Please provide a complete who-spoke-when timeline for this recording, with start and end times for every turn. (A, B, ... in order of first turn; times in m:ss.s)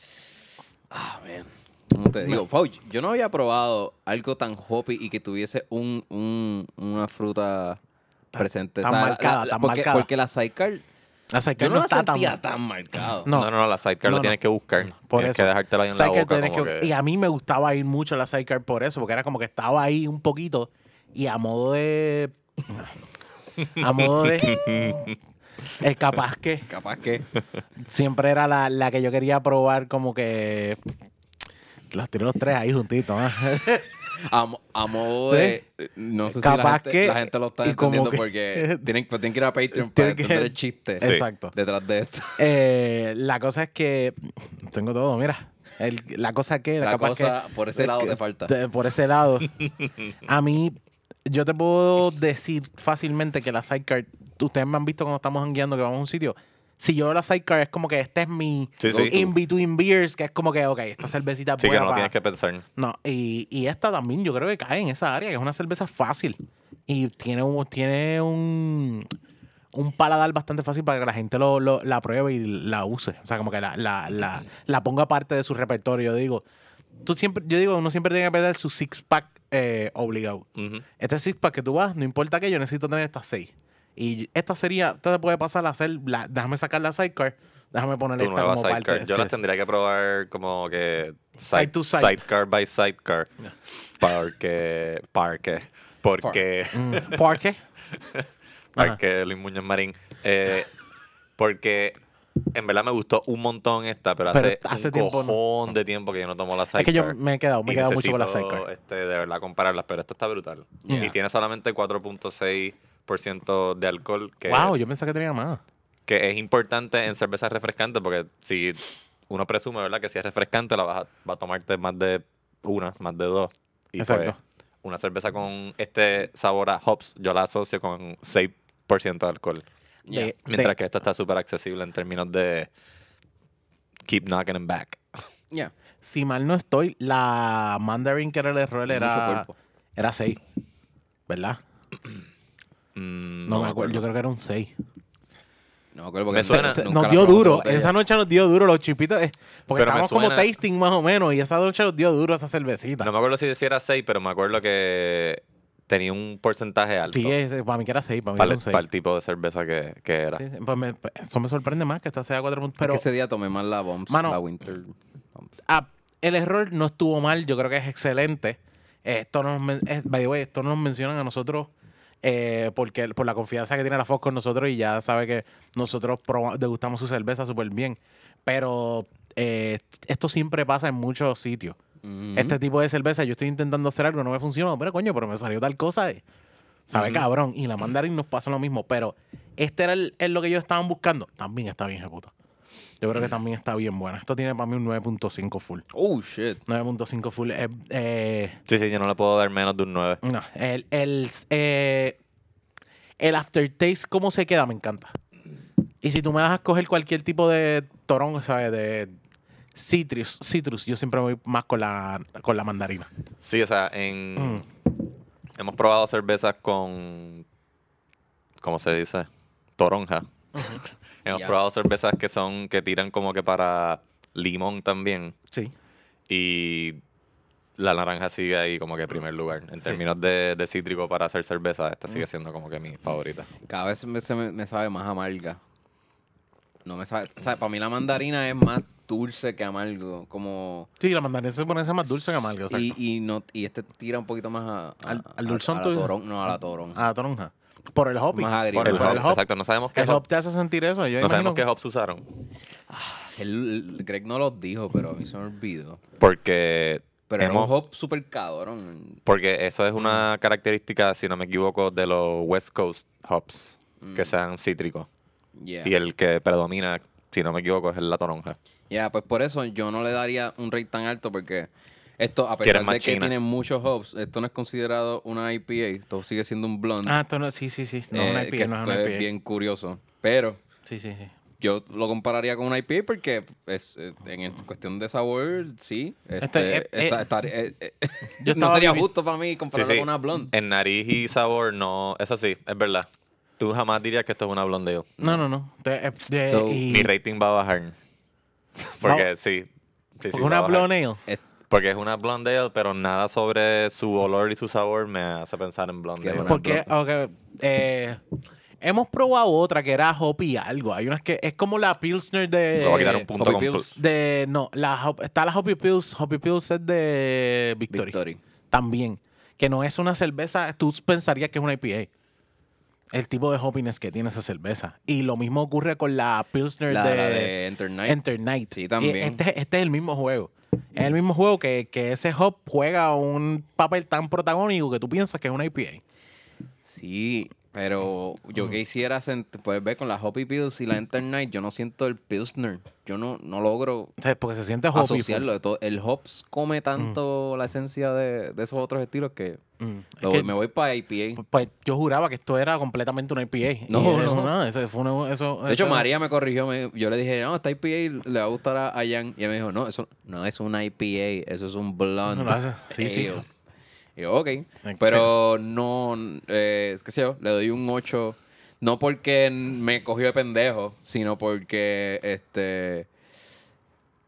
0:00.9-0:07.8 A
0:08.3-0:10.1 B
0:08.4-0:10.8 A
0:11.3-0:12.4 B
0:11.6-0:13.3 A
0:13.3-0:13.5 B
0:13.3-0:16.9 C
0:14.0-0:14.4 B
0:15.0-0:23.0 B
0:23.8-0:25.1 B
0:24.4-0:25.1 C
0:25.8-0:26.7 B
0:26.7-0:27.3 A
0:27.8-0:30.8 B
0:31.9-0:33.9 B
0:34.1-0:42.4 A
0:35.3-0:35.6 B
0:36.3-0:38.9 B
0:39.7-0:41.5 B
0:42.4-0:49.6 B
0:46.8-0:48.5 A
0:50.2-1:02.1 B
0:58.8-0:59.3 C
0:58.9-0:59.2 A
1:01.6-1:02.6 C
1:02.8-1:09.1 B
1:09.7-1:16.4 B
1:17.0-1:20.5 B
1:20.6-1:20.8 C
1:21.0-1:29.4 B
1:28.2-1:33.3 C
1:31.5-1:32.2 B
1:34.0-1:37.3 C
1:36.7-1:37.6 B
1:38.0-1:40.7 C
1:41.4-1:42.0 C
1:42.5-1:54.7 C
1:44.3-1:45.4 B
1:46.8-1:48.6 B
1:50.8-1:51.1 A
1:50.9-1:51.1 B
1:54.5-1:55.6 B
1:56.1-2:09.6 C
2:04.0-2:04.4 B
2:10.1-2:10.3 A
2:10.1-2:10.7 B
2:10.5-2:12.7 C
2:14.1-2:15.2 C
2:16.0-2:20.4 B
2:18.9-2:19.5 A
2:21.3-2:21.6 B
2:23.0-2:24.0 C
2:23.5-2:24.7 B
2:26.0-2:27.9 A
2:26.3-2:27.0 C
2:26.5-2:33.1 B
2:29.8-2:30.5 C
2:33.0-2:37.4 C
2:37.1-2:38.8 B
2:38.4-2:40.4 C
2:40.4-2:43.0 B
2:42.8-2:45.5 A
2:44.1-2:44.4 B
2:45.7-2:51.7 B
2:52.2-3:01.8 B
3:02.0-3:02.6 A
3:02.4-3:06.2 B
3:06.9-3:12.3 B
3:13.0-3:15.8 B
3:15.9-3:16.6 A
3:16.7-3:18.6 B
3:18.7-3:20.2 C
3:20.2-3:22.2 B
3:23.2-3:25.1 B
3:26.0-3:29.1 B
3:29.8-3:33.1 B
3:33.4-3:34.7 C
3:34.4-3:34.6 B
3:35.6-3:37.4 C
3:38.6-3:45.4 C
3:46.3-3:47.0 C
3:47.8-3:53.5 C
3:53.7-3:55.6 A
3:56.9-4:00.9 A
4:01.0-4:03.0 B
4:02.7-4:07.0 A
4:05.1-4:06.1 B
4:06.9-4:11.6 B
4:08.3-4:09.3 A
4:08.8-4:10.2 C
4:11.2-4:12.2 C
4:12.9-4:16.0 A
4:16.2-4:17.7 C
4:17.3-4:19.2 A
4:19.3-4:25.1 C
4:24.0-4:24.4 A
4:25.6-4:25.9 A
4:25.8-4:28.6 C
4:28.9-4:37.2 A
4:32.6-4:33.3 C
4:37.0-4:39.3 B
4:38.1-4:40.6 A
4:40.9-4:41.3 B
4:41.6-4:50.5 A
4:46.4-4:47.2 B
4:48.4-4:49.1 B
4:49.7-4:53.1 C
4:53.6-4:55.4 C
4:55.2-4:57.1 B
4:56.5-4:56.8 A
4:56.9-4:58.0 C
4:58.8-4:59.7 C
5:00.2-5:00.9 C
5:00.3-5:01.2 B
5:01.7-5:06.6 C
5:06.2-5:06.9 A
5:06.5-5:08.2 B
5:08.8-5:13.3 B
5:12.8-5:13.9 C
5:13.4-5:13.9 A
5:14.0-5:18.2 B
5:17.9-5:18.4 A
5:18.7-5:22.1 B
5:23.1-5:27.5 B
5:26.9-5:28.2 A
5:28.1-5:36.0 B
5:28.7-5:29.4 A
5:36.8-5:44.1 A
5:44.2-5:45.5 B
5:44.9-5:49.6 A
5:49.8-5:50.5 B
5:50.2-5:51.4 A
5:51.4-5:56.1 B
5:53.9-5:54.5 A
5:55.7-6:03.5 A
6:02.3-6:03.4 B
6:04.2-6:13.1 A
6:04.8-6:05.3 B